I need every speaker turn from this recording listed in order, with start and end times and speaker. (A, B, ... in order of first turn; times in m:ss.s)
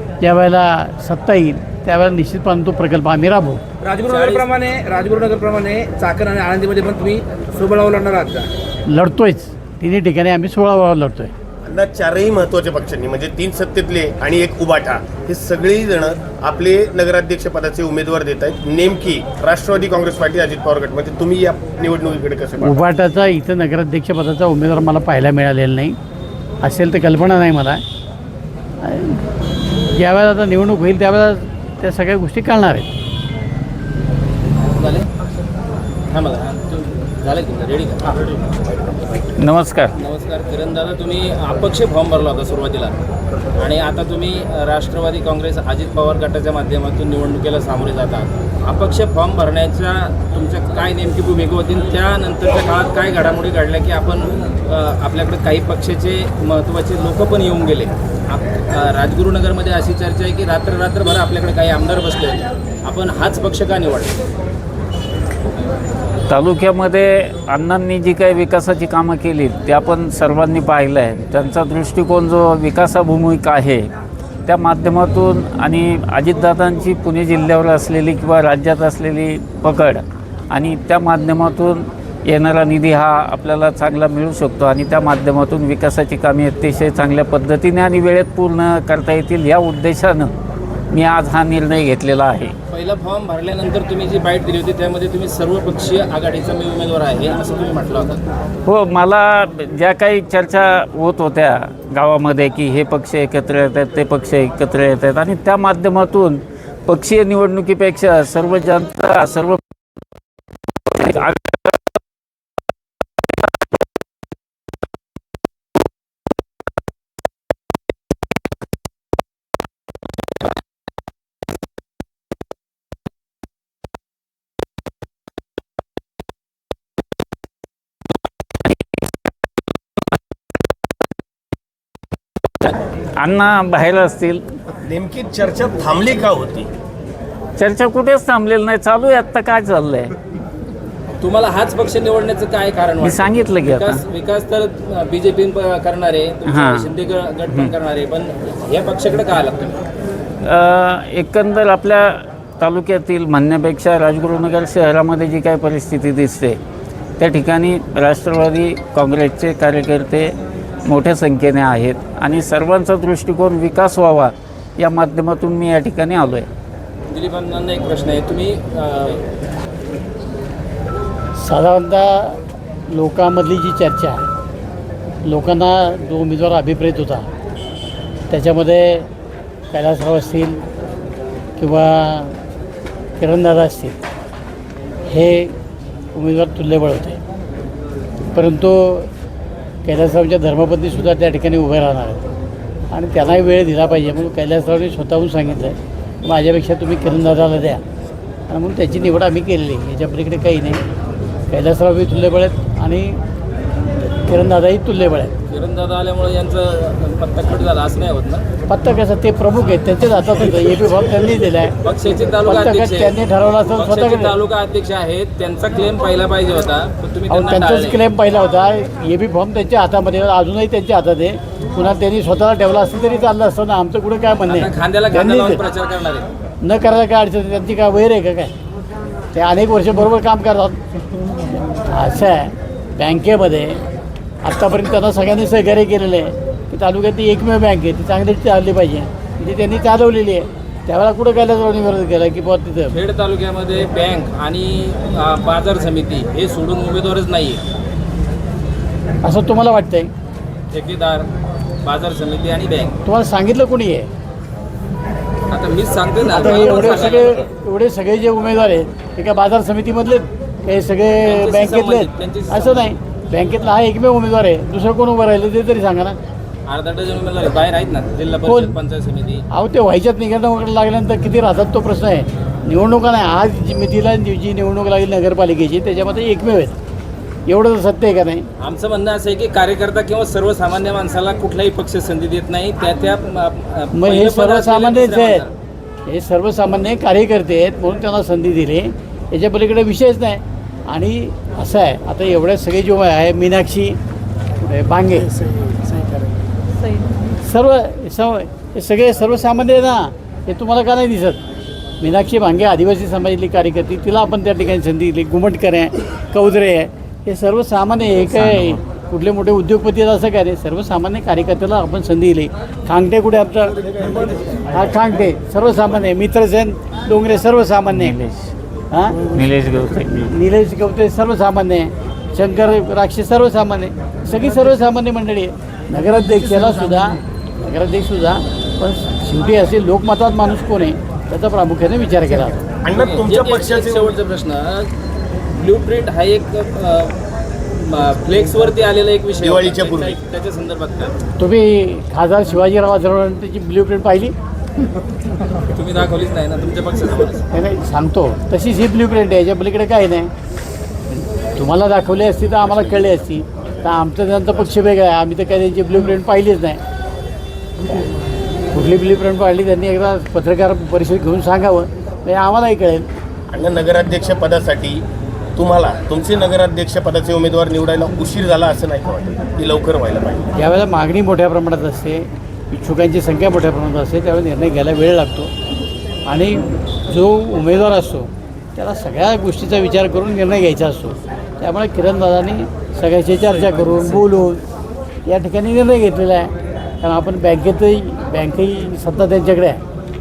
0:00.2-0:03.6 A
0:03.8-0:08.5 B
0:04.0-0:04.5 C
0:08.9-0:11.3 A
0:11.6-0:22.8 D
0:22.6-0:26.0 A
0:26.6-0:27.8 A
0:28.8-0:29.2 A
0:29.8-0:32.9 A
0:34.7-0:35.1 C
0:36.1-0:38.3 C
0:39.4-0:39.9 E
0:39.9-0:43.0 C
0:43.6-1:04.2 C
1:06.3-1:13.9 E
1:14.4-1:30.3 E
1:30.9-1:32.5 E
1:32.7-1:38.2 C
1:38.6-1:49.6 E
1:50.9-1:51.7 E
2:12.6-2:14.4 E
2:14.8-2:16.7 D
2:17.6-2:20.1 E
2:21.2-2:29.8 C
2:23.0-2:24.0 E
2:26.5-2:27.0 E
2:30.4-2:36.6 E
2:37.2-2:40.3 E
2:40.8-2:46.5 E
2:47.1-2:49.2 C
2:51.4-2:52.4 A
2:52.9-2:54.2 A
2:55.2-2:57.2 A
2:58.3-2:59.1 A
2:59.7-3:00.6 A
3:01.6-3:02.4 A
3:03.2-3:04.0 A
3:05.1-3:05.5 A
3:06.1-3:07.2 A
3:08.3-3:09.1 A
3:09.8-3:12.2 A
3:12.9-3:17.8 A
3:18.5-3:20.8 A
3:21.5-3:23.2 A
3:24.3-3:25.3 A
3:25.5-3:28.4 C
3:28.7-3:31.7 A
3:31.8-3:33.1 C
3:32.4-3:34.4 A
3:33.7-3:38.0 C
3:37.3-3:45.6 A
3:44.5-3:46.3 C
3:46.6-3:48.5 A
3:49.3-3:50.8 A
3:51.5-3:53.8 A
3:54.4-4:02.9 A
4:02.9-4:07.6 C
4:09.2-4:10.1 A
4:10.7-4:11.3 C
4:11.8-4:13.0 C
4:13.0-4:14.1 A
4:15.5-4:17.4 C
4:16.2-4:26.2 A
4:21.2-4:22.9 C
4:26.7-4:29.4 C
4:28.4-4:28.7 A
4:29.5-4:36.8 A
4:37.5-4:38.4 A
4:38.6-4:45.5 C
4:43.9-4:45.4 A
4:46.1-4:54.0 A
4:54.6-4:55.3 A
4:57.3-5:01.4 A
5:02.0-5:18.2 A
5:08.3-5:08.8 E
5:17.9-5:18.5 E
5:18.9-5:19.3 A
5:19.3-5:20.3 E
5:20.2-5:32.6 A
5:32.8-5:34.1 D
5:32.9-5:34.9 C
5:35.5-5:37.2 C
5:37.7-5:41.2 C
5:39.4-5:40.2 D
5:41.4-5:44.3 A
5:45.7-5:47.5 C
5:47.5-5:50.3 A
5:51.1-5:56.8 A
5:58.7-6:03.1 A
6:03.5-6:05.0 D
6:05.6-6:10.5 D
6:10.5-6:15.5 A
6:16.2-6:24.6 A
6:25.2-6:29.8 A